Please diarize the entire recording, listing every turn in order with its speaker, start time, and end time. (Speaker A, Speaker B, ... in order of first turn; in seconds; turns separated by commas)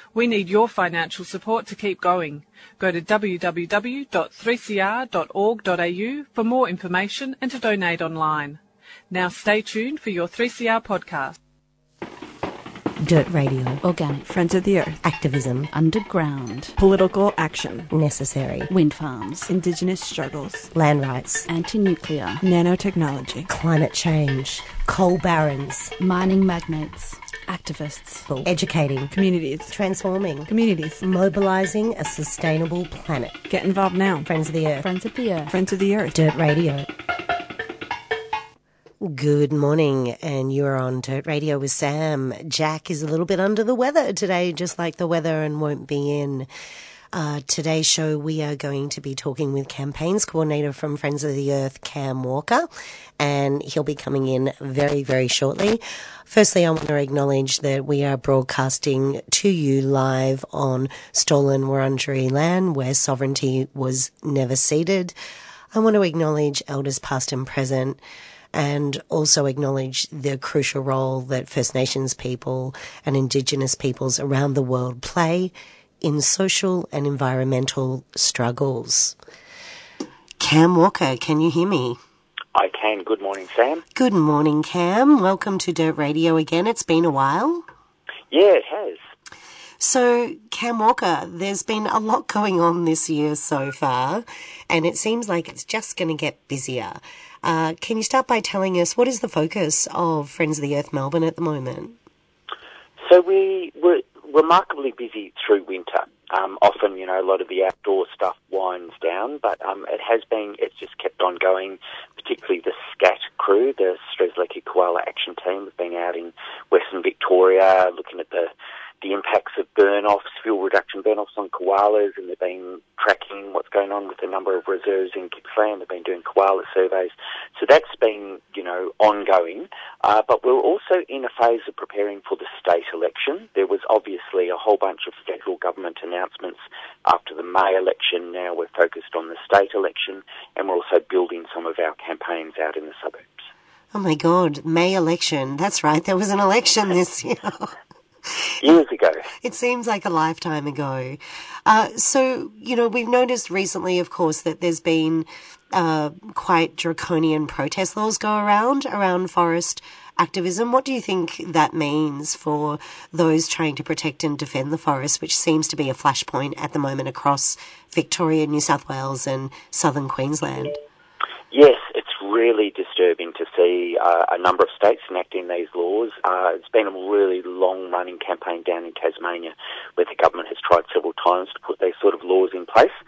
Speaker A: 0.1-8.6, Speaker A: 9.1-11.4, Speaker B: 13.0-13.8, Speaker C: 13.8-14.3, Speaker D: 14.3-15.0, Speaker B: 15.0-15.7, Speaker C: 15.7-16.7, Speaker D: 16.8-17.9, Speaker B: 17.9-18.7, Speaker C: 18.7-19.5, Speaker D: 19.5-20.7, Speaker B: 20.7-21.5, Speaker C: 21.5-22.4, Speaker D: 22.4-23.5, Speaker B: 23.5-25.9, Speaker C: 26.0-28.3, Speaker B: 28.3-29.1, Speaker D: 29.1-29.8, Speaker B: 29.7-33.5, Speaker D: 30.5-31.0, Speaker D: 33.5-34.3, Speaker B: 34.2-34.8, Speaker C: 34.8-35.5, Speaker D: 35.5-36.2, Speaker B: 36.1-36.9, Speaker B: 39.0-46.5, Speaker B: 47.1-65.2, Speaker B: 65.7-68.0, Speaker B: 68.5-79.2, Speaker B: 80.4-82.0, Speaker E: 82.5-83.8, Speaker B: 84.0-87.7, Speaker E: 88.3-89.0, Speaker B: 89.8-102.0, Speaker E: 103.0-143.4, Speaker B: 143.9-148.5, Speaker E: 148.6-149.3, Speaker B: 149.4-170.8, Speaker E: 171.5-182.9